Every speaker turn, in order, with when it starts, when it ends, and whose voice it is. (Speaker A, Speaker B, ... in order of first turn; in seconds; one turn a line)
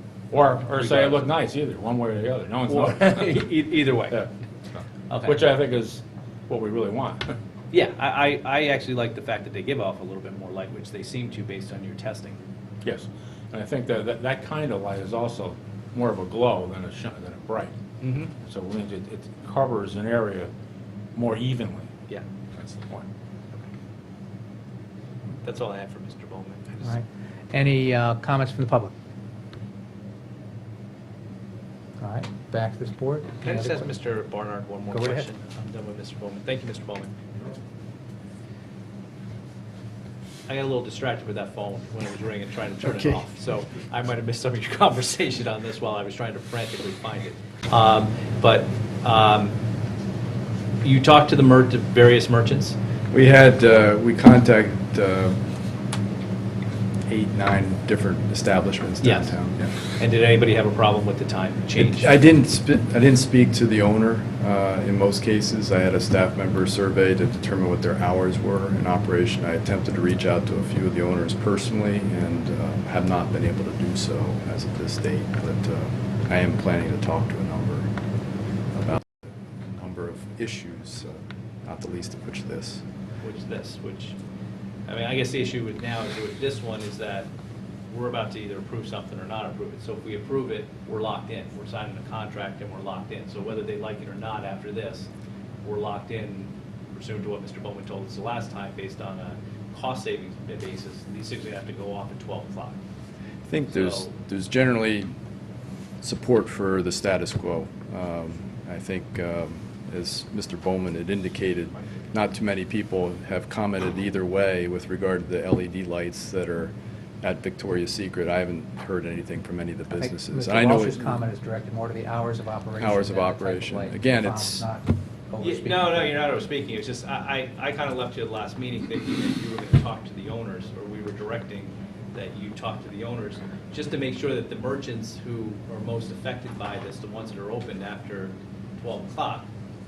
Speaker A: 0.3-7.3
Speaker B: 0.7-1.3
Speaker B: 2.7-4.2
Speaker B: 5.1-5.4
Speaker B: 7.7-12.4
Speaker A: 12.8-17.7
Speaker B: 18.0-18.3
Speaker A: 18.3-20.5
Speaker A: 21.1-21.9
Speaker A: 22.5-23.1
Speaker B: 25.4-26.9
Speaker C: 26.8-28.9
Speaker C: 32.0-33.9
Speaker B: 33.4-37.2
Speaker C: 34.9-35.2
Speaker B: 40.5-49.6
Speaker B: 50.8-52.8
Speaker D: 53.1-55.5
Speaker D: 57.0-59.8
Speaker B: 59.0-59.4
Speaker B: 59.9-62.1
Speaker D: 61.8-77.9
Speaker D: 78.7-82.8
Speaker B: 83.2-84.2
Speaker B: 84.8-87.3
Speaker B: 87.9-95.1
Speaker B: 95.6-102.8
Speaker D: 103.4-105.2
Speaker B: 103.7-104.1
Speaker D: 106.0-121.3
Speaker C: 119.9-126.1
Speaker D: 122.8-124.7
Speaker B: 125.4-139.5